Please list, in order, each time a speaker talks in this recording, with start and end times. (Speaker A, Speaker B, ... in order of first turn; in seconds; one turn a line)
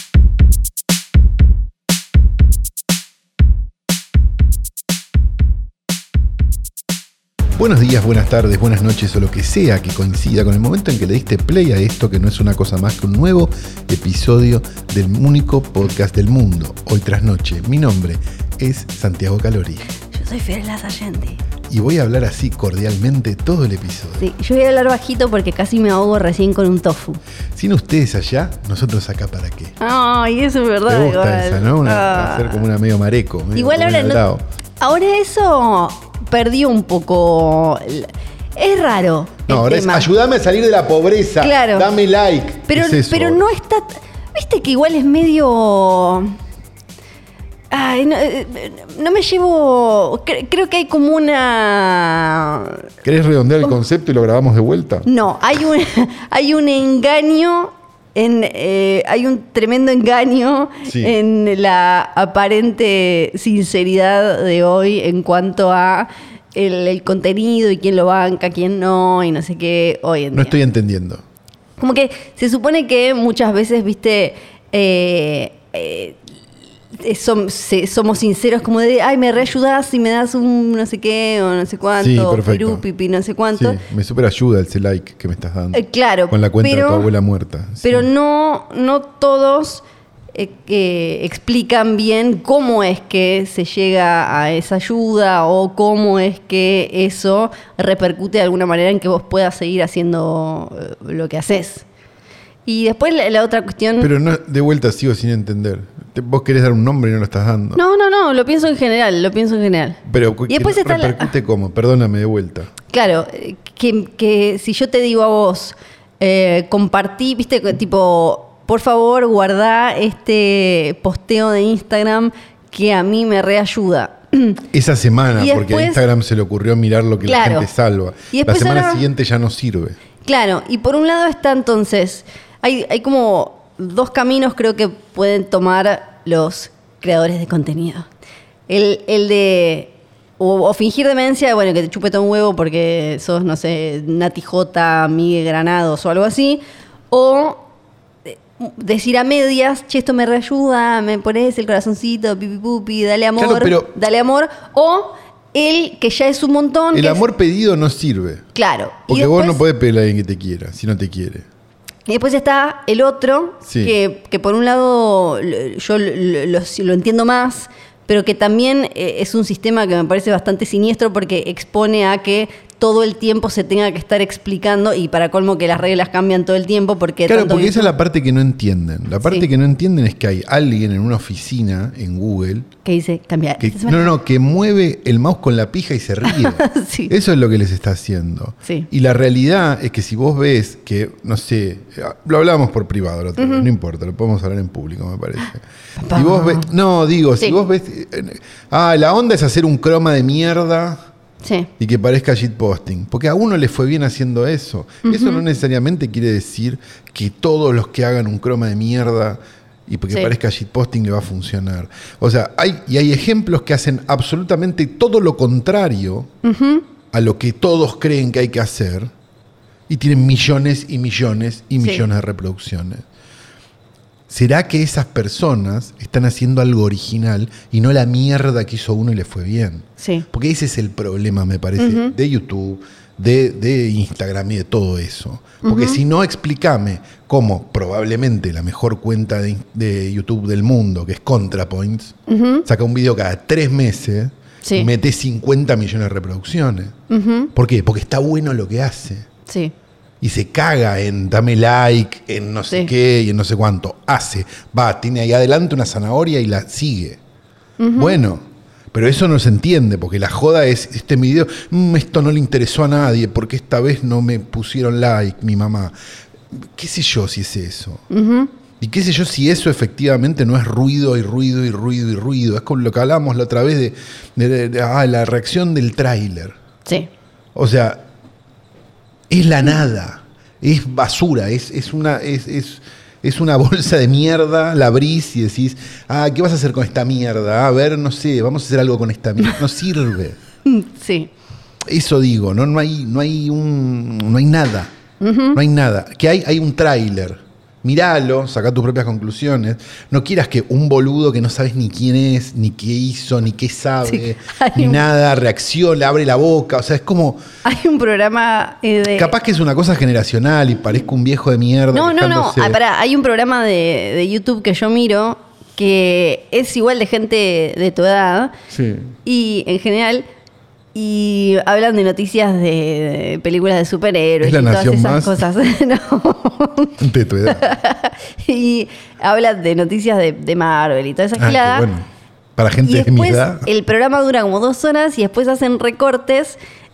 Speaker A: 7.6-19.8
Speaker B: 20.1-21.4
Speaker A: 21.7-24.2
Speaker B: 24.2-27.2
Speaker A: 27.5-29.8
Speaker B: 29.8-32.6
Speaker A: 30.9-34.4
Speaker B: 33.5-34.2
Speaker B: 34.8-40.1
Speaker A: 39.5-43.4
Speaker B: 41.4-41.9
Speaker B: 42.7-46.3
Speaker B: 47.7-52.8
Speaker A: 53.0-55.1
Speaker B: 55.0-70.5
Speaker A: 60.9-61.1
Speaker A: 70.3-71.2
Speaker B: 71.8-76.2
Speaker B: 76.9-83.8
Speaker A: 82.0-82.8
Speaker A: 83.5-88.1
Speaker B: 85.7-87.1
Speaker B: 87.8-101.8
Speaker B: 102.7-104.1
Speaker A: 104.0-107.8
Speaker B: 107.7-111.3
Speaker A: 110.0-112.7
Speaker B: 112.9-124.6
Speaker A: 124.7-130.0
Speaker B: 125.3-126.0
Speaker B: 127.2-127.7
Speaker B: 128.3-129.0
Speaker B: 130.2-138.1
Speaker B: 138.7-147.6
Speaker B: 148.3-157.2
Speaker A: 153.4-153.9
Speaker A: 156.9-158.4
Speaker B: 158.5-159.6
Speaker A: 159.1-161.4
Speaker B: 162.1-177.9
Speaker A: 163.7-163.9
Speaker A: 177.3-182.7
Speaker B: 182.8-184.2
Speaker A: 183.6-201.0
Speaker B: 186.2-187.1
Speaker B: 193.4-193.7
Speaker B: 196.0-196.7
Speaker B: 201.4-201.7
Speaker A: 201.8-216.3
Speaker B: 205.0-205.4
Speaker B: 216.4-216.8
Speaker A: 217.1-219.1
Speaker A: 219.9-223.0
Speaker B: 221.8-222.1
Speaker A: 224.3-246.9
Speaker B: 230.0-230.2
Speaker B: 231.8-232.1
Speaker B: 235.6-236.0
Speaker B: 242.3-242.7
Speaker B: 244.6-244.9
Speaker B: 247.1-247.5
Speaker A: 247.5-249.3
Speaker B: 249.5-249.7
Speaker A: 250.2-257.2
Speaker B: 257.8-258.2
Speaker A: 258.0-265.9
Speaker A: 266.5-268.0
Speaker B: 268.1-268.5
Speaker A: 268.8-276.6
Speaker A: 277.5-278.0
Speaker A: 279.3-290.4
Speaker B: 290.6-291.3
Speaker A: 291.9-294.9
Speaker B: 295.2-295.6
Speaker A: 295.5-307.4
Speaker B: 304.0-305.0
Speaker B: 307.6-309.3
Speaker A: 309.1-312.8
Speaker B: 311.9-318.5
Speaker A: 318.7-319.1
Speaker B: 319.2-320.2
Speaker B: 320.9-331.9
Speaker A: 324.4-325.4
Speaker A: 327.0-327.7
Speaker A: 331.4-333.7
Speaker B: 332.8-336.6